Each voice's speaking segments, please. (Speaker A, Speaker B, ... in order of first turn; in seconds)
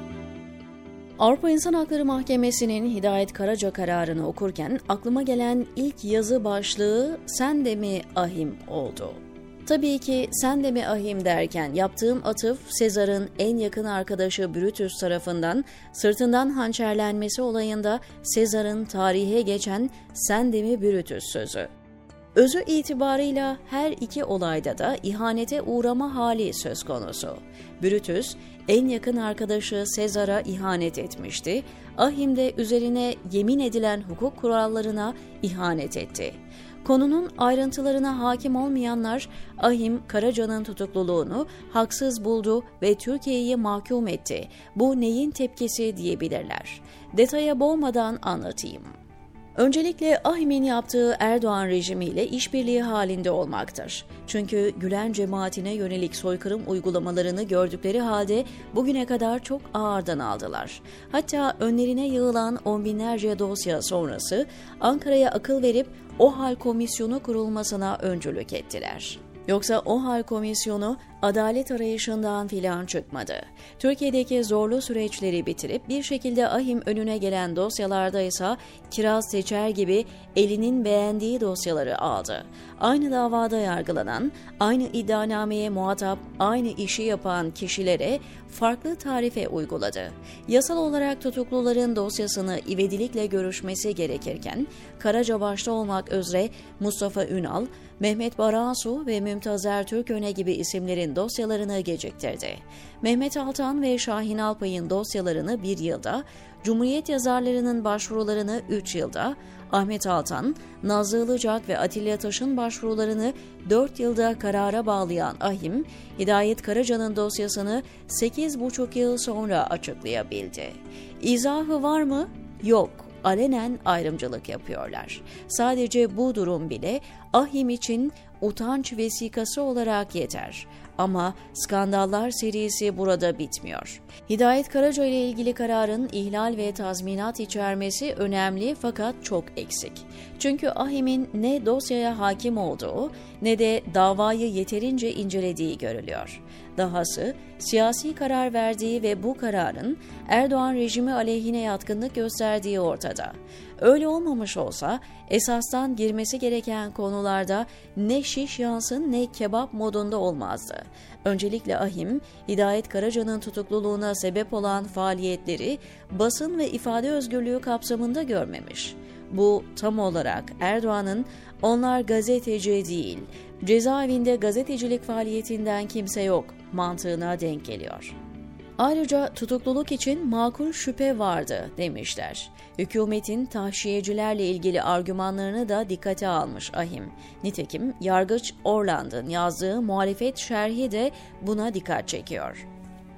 Speaker A: 1.2-21.7, 22.4-48.9, 49.5-178.2, 178.8-192.7